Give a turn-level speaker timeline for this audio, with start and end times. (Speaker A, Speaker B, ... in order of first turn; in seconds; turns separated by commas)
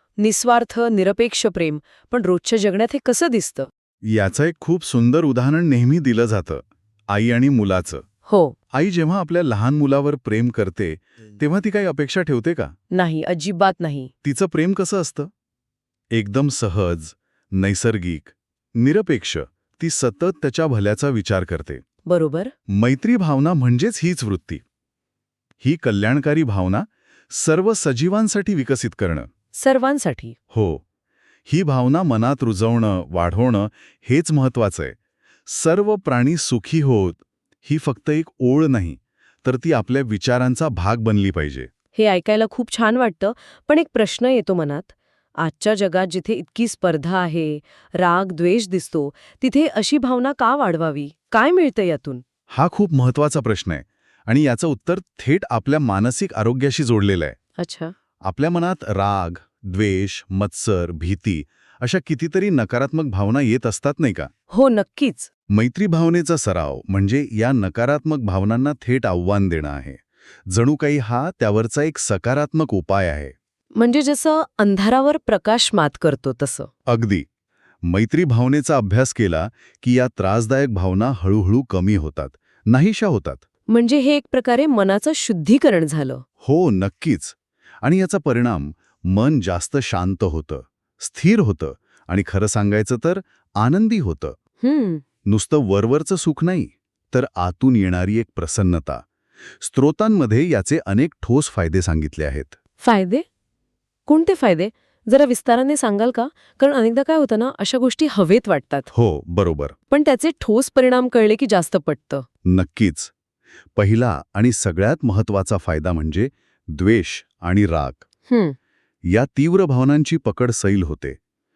Speaker A: 0.2-3.7, Speaker B: 4.0-8.0, Speaker A: 8.3-8.6, Speaker B: 8.7-12.7, Speaker A: 12.9-14.1, Speaker B: 14.2-15.3, Speaker B: 16.1-21.8, Speaker A: 22.1-22.5, Speaker B: 22.7-24.6, Speaker B: 25.6-29.3, Speaker A: 29.5-30.4, Speaker B: 30.5-30.8, Speaker B: 31.5-35.0, Speaker B: 35.5-41.7, Speaker A: 41.9-52.2, Speaker B: 52.5-57.4, Speaker A: 57.6-57.9, Speaker B: 58.2-64.3, Speaker A: 64.5-65.3, Speaker B: 65.5-73.3, Speaker A: 73.8-76.7, Speaker B: 76.9-77.3, Speaker B: 77.8-83.4, Speaker A: 83.7-86.2, Speaker B: 86.4-94.4, Speaker A: 94.6-95.0, Speaker B: 95.3-99.0, Speaker B: 99.6-102.6, Speaker A: 102.8-103.2, Speaker A: 104.1-108.9, Speaker B: 108.9-109.8, Speaker A: 109.9-112.3, Speaker B: 112.5-113.1, Speaker B: 113.8-118.0, Speaker A: 118.3-118.6, Speaker B: 119.1-121.2